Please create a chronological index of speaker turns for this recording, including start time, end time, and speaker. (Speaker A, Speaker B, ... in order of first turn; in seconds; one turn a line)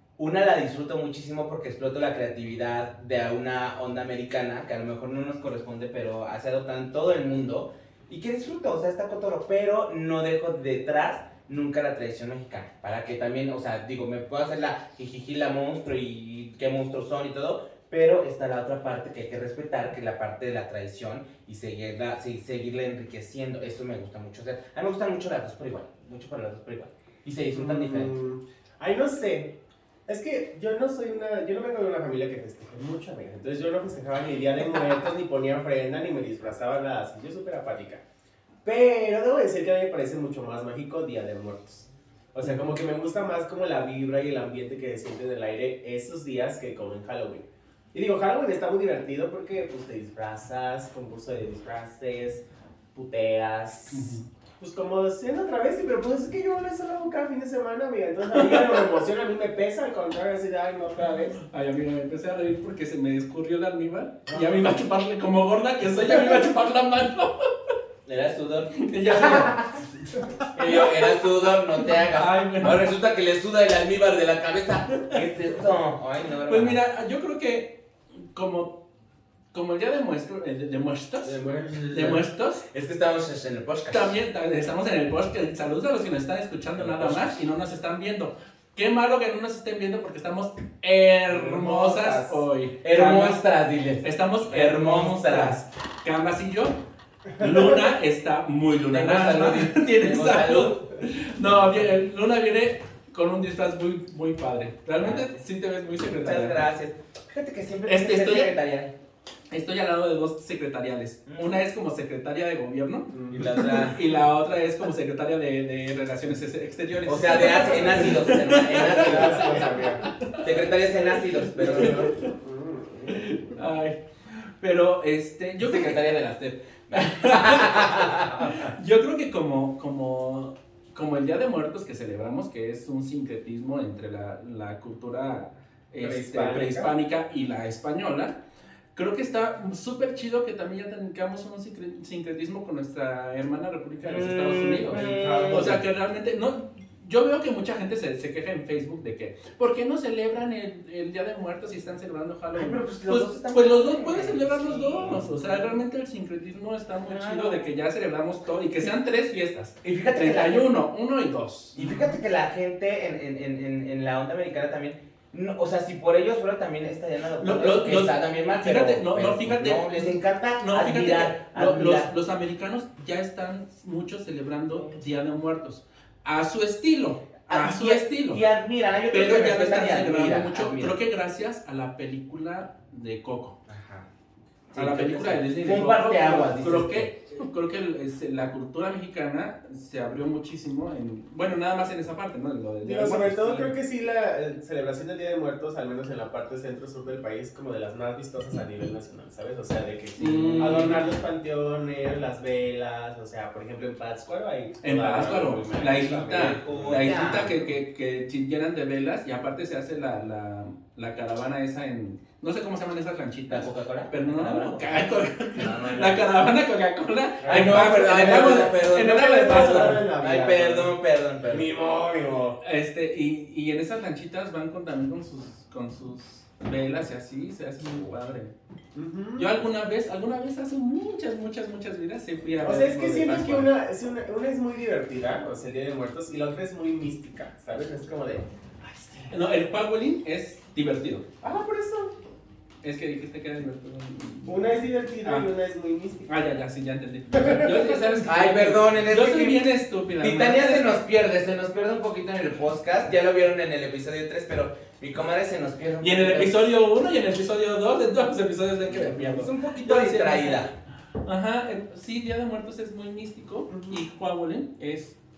Speaker A: 0.2-28.1
Speaker B: 27.5-29.5
Speaker B: 30.1-38.0
Speaker B: 38.6-61.4
Speaker C: 53.9-54.2
Speaker C: 61.4-67.7
Speaker B: 64.3-64.7
Speaker A: 68.0-69.8
Speaker C: 68.8-71.2
Speaker A: 70.5-76.8
Speaker C: 71.8-72.9
Speaker C: 76.5-78.8
Speaker C: 79.5-81.4
Speaker B: 81.2-82.2
Speaker C: 81.9-82.7
Speaker A: 82.7-84.1
Speaker C: 83.9-93.4
Speaker A: 86.8-87.2
Speaker A: 91.5-95.6
Speaker C: 94.0-96.8
Speaker C: 97.4-106.6
Speaker A: 98.9-100.8
Speaker A: 101.5-101.9
Speaker A: 105.0-105.4
Speaker A: 106.1-108.9
Speaker C: 107.9-108.5
Speaker C: 109.5-120.7
Speaker A: 111.3-111.6
Speaker B: 113.1-113.5
Speaker A: 113.3-114.0
Speaker A: 117.0-119.8
Speaker B: 118.8-120.1
Speaker A: 120.4-122.1
Speaker B: 121.5-123.3
Speaker C: 121.6-122.3
Speaker C: 123.1-126.0
Speaker A: 125.6-128.7
Speaker C: 126.9-138.4
Speaker B: 136.0-136.9
Speaker C: 138.9-162.1
Speaker A: 144.0-145.8
Speaker B: 144.9-145.8
Speaker A: 152.5-155.7
Speaker A: 157.0-157.7
Speaker A: 159.8-160.7
Speaker A: 161.8-172.1
Speaker C: 167.4-178.4
Speaker A: 177.5-181.0
Speaker C: 179.1-183.6
Speaker A: 183.7-184.1
Speaker A: 184.7-187.1
Speaker C: 184.8-193.7
Speaker B: 192.8-207.1
Speaker C: 200.2-201.1
Speaker C: 204.8-220.0
Speaker A: 206.3-207.5
Speaker A: 213.5-216.3
Speaker B: 217.4-220.9
Speaker A: 217.4-221.7
Speaker B: 221.5-222.6
Speaker C: 222.6-228.5
Speaker B: 228.9-229.6
Speaker C: 229.4-233.7
Speaker B: 232.6-239.3
Speaker C: 239.3-241.2
Speaker B: 241.4-242.1
Speaker C: 242.8-244.6
Speaker B: 244.4-246.3
Speaker C: 245.2-245.5
Speaker C: 246.2-251.0
Speaker B: 247.3-248.2
Speaker A: 248.2-256.7
Speaker C: 256.0-260.7
Speaker A: 258.9-260.7
Speaker C: 261.2-265.1
Speaker B: 263.7-264.0